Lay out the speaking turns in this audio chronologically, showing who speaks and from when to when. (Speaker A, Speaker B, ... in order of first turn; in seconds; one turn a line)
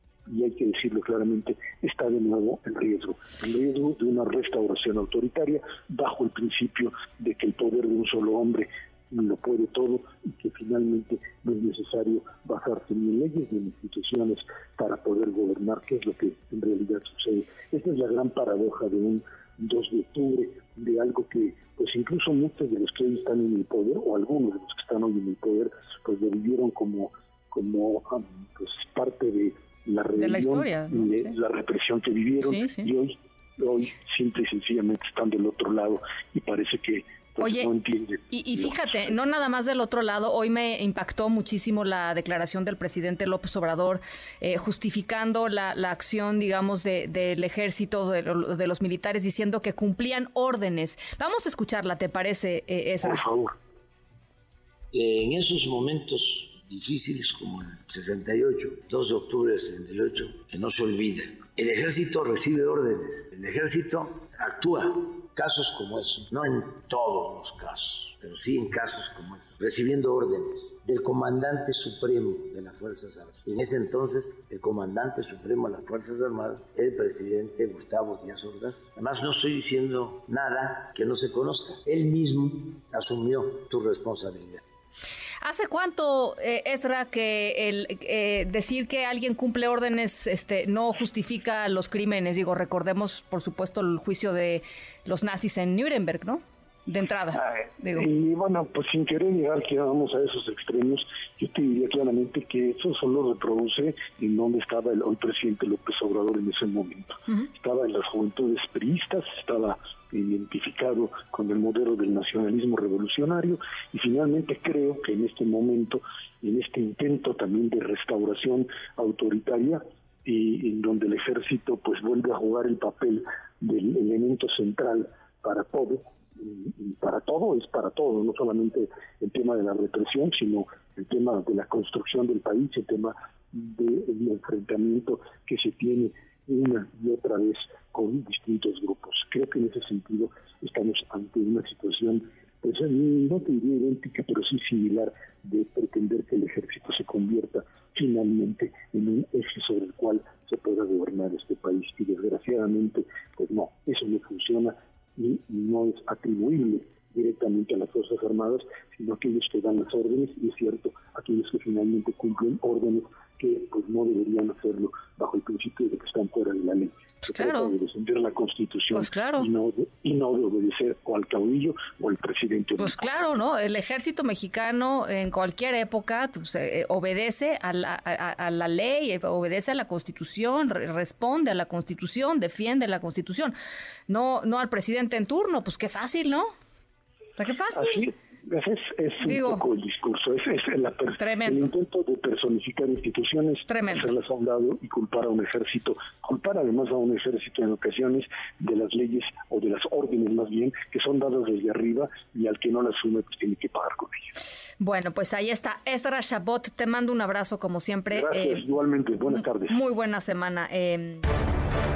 Speaker A: 0.3-39.1
Speaker B: 30.2-31.3
Speaker B: 32.4-32.9
Speaker B: 37.4-37.7
Speaker B: 38.3-53.2
Speaker A: 53.0-53.5
Speaker C: 54.9-84.6
Speaker B: 85.4-98.1
Speaker A: 97.3-173.1
Speaker B: 167.3-167.8
Speaker B: 168.9-169.5
Speaker B: 172.8-183.5
Speaker B: 184.1-186.5
Speaker B: 187.4-188.0
Speaker A: 187.7-204.3
Speaker B: 189.2-189.6
Speaker B: 191.2-191.7
Speaker B: 193.7-194.1
Speaker B: 204.8-208.7
Speaker A: 208.1-209.8
Speaker B: 209.3-211.3